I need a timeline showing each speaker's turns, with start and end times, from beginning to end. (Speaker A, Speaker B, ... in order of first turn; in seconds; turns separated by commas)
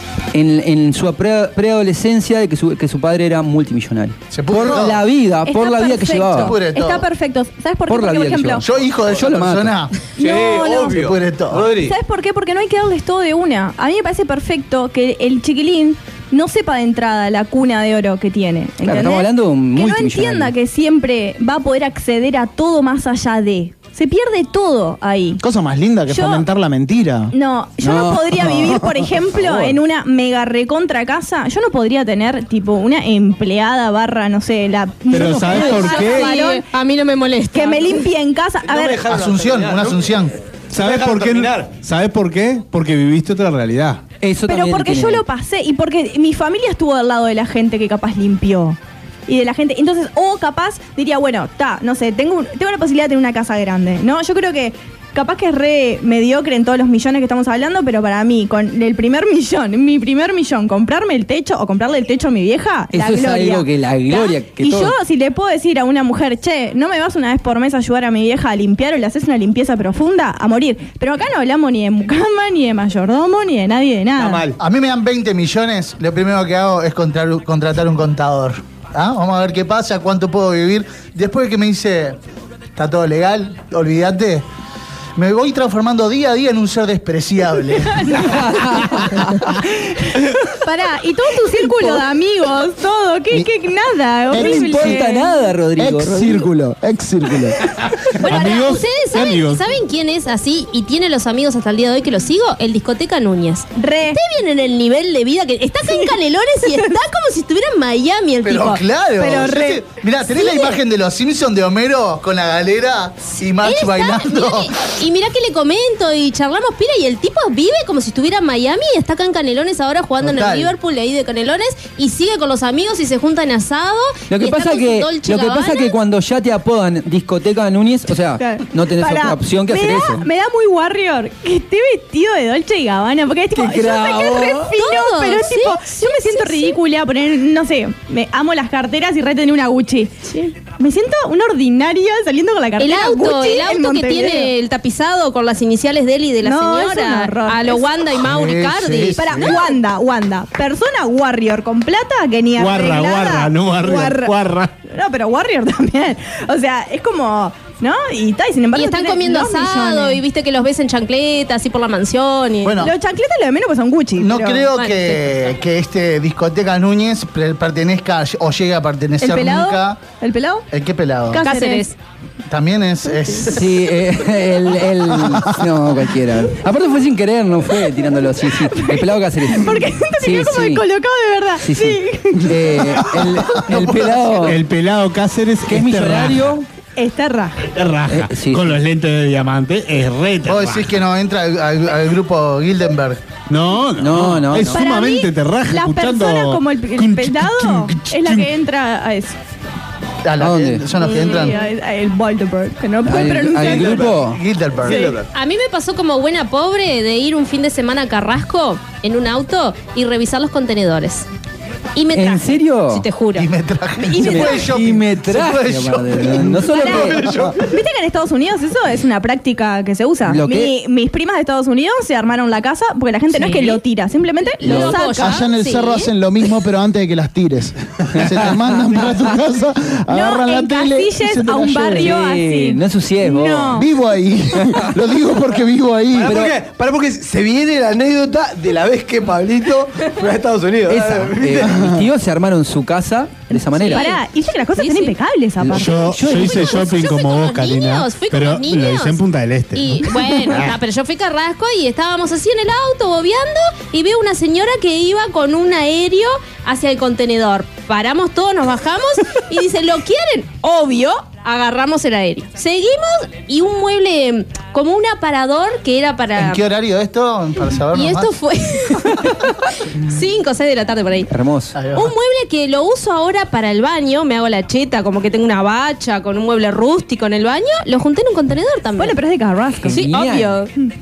Speaker A: 0.3-6.6, Speaker B: 4.3-5.0, Speaker C: 5.5-8.7, Speaker B: 6.4-7.1, Speaker A: 7.9-9.8, Speaker B: 8.6-10.0, Speaker D: 10.2-11.9, Speaker C: 10.2-11.0, Speaker B: 10.8-11.7, Speaker C: 11.8-25.4, Speaker A: 18.8-20.5, Speaker E: 25.4-27.3, Speaker C: 26.1-26.5, Speaker C: 27.3-36.7, Speaker A: 27.8-29.8, Speaker F: 35.1-36.4, Speaker G: 35.5-38.0, Speaker C: 37.5-39.0, Speaker D: 38.6-41.7, Speaker B: 39.1-40.3, Speaker F: 40.7-44.0, Speaker A: 44.2-45.2, Speaker C: 44.5-74.4, Speaker A: 62.9-65.0, Speaker D: 74.2-74.6, Speaker B: 74.6-82.2, Speaker B: 82.8-84.5, Speaker B: 85.2-88.4, Speaker A: 88.2-89.5, Speaker C: 90.5-95.4, Speaker E: 94.3-95.1, Speaker A: 94.3-96.4, Speaker E: 95.8-97.6, Speaker G: 98.2-108.8, Speaker F: 98.2-99.6, Speaker C: 103.8-104.2, Speaker C: 105.9-106.1, Speaker B: 108.4-114.7, Speaker C: 109.2-109.8, Speaker G: 113.5-126.0, Speaker B: 120.2-120.7, Speaker A: 124.3-130.2, Speaker C: 128.4-144.5, Speaker A: 133.6-134.7, Speaker G: 134.2-136.8, Speaker G: 142.8-149.7, Speaker C: 146.4-147.9, Speaker B: 148.2-149.7, Speaker C: 149.2-160.2, Speaker F: 152.6-154.7, Speaker G: 158.8-162.8, Speaker B: 162.7-162.9, Speaker C: 162.8-164.7, Speaker B: 164.2-170.0, Speaker G: 164.8-165.2, Speaker C: 169.2-170.7, Speaker B: 170.7-171.4, Speaker C: 171.3-171.9, Speaker G: 171.4-172.0, Speaker B: 172.5-173.9, Speaker A: 173.5-180.8, Speaker C: 178.6-183.1, Speaker A: 181.6-184.6, Speaker B: 183.6-184.5, Speaker F: 184.4-186.6, Speaker A: 185.7-186.7, Speaker C: 187.0-187.6, Speaker F: 187.6-191.0, Speaker A: 188.1-188.8, Speaker B: 190.5-193.2, Speaker F: 193.5-198.5, Speaker A: 194.0-194.8, Speaker C: 194.7-199.4, Speaker B: 200.2-201.6, Speaker A: 200.4-200.9, Speaker C: 201.0-204.1, Speaker G: 201.0-201.5, Speaker A: 203.0-204.4, Speaker D: 203.6-204.3, Speaker B: 203.9-205.1, Speaker D: 204.8-205.3, Speaker G: 205.3-211.3, Speaker G: 211.9-213.5, Speaker A: 212.1-213.1, Speaker B: 213.3-217.5, Speaker C: 214.0-214.7, Speaker A: 214.1-217.5, Speaker C: 216.7-225.4, Speaker A: 220.3-220.8, Speaker G: 223.3-223.8, Speaker G: 224.6-226.1, Speaker A: 224.7-225.1, Speaker E: 225.2-232.1, Speaker A: 228.2-229.2, Speaker C: 230.1-233.9, Speaker A: 231.9-233.8, Speaker E: 233.8-236.3, Speaker D: 236.1-241.8, Speaker A: 236.3-236.6, Speaker A: 240.9-244.1, Speaker E: 241.6-242.0, Speaker C: 243.5-246.8, Speaker G: 243.8-244.2, Speaker G: 244.8-245.1, Speaker A: 245.6-246.9, Speaker F: 245.8-250.7, Speaker G: 246.5-249.2, Speaker G: 249.8-266.6, Speaker B: 266.4-268.3, Speaker G: 267.9-271.3, Speaker A: 271.3-271.8, Speaker B: 271.8-272.1, Speaker G: 271.9-279.2, Speaker C: 279.0-280.5, Speaker A: 279.8-280.6, Speaker G: 279.9-280.7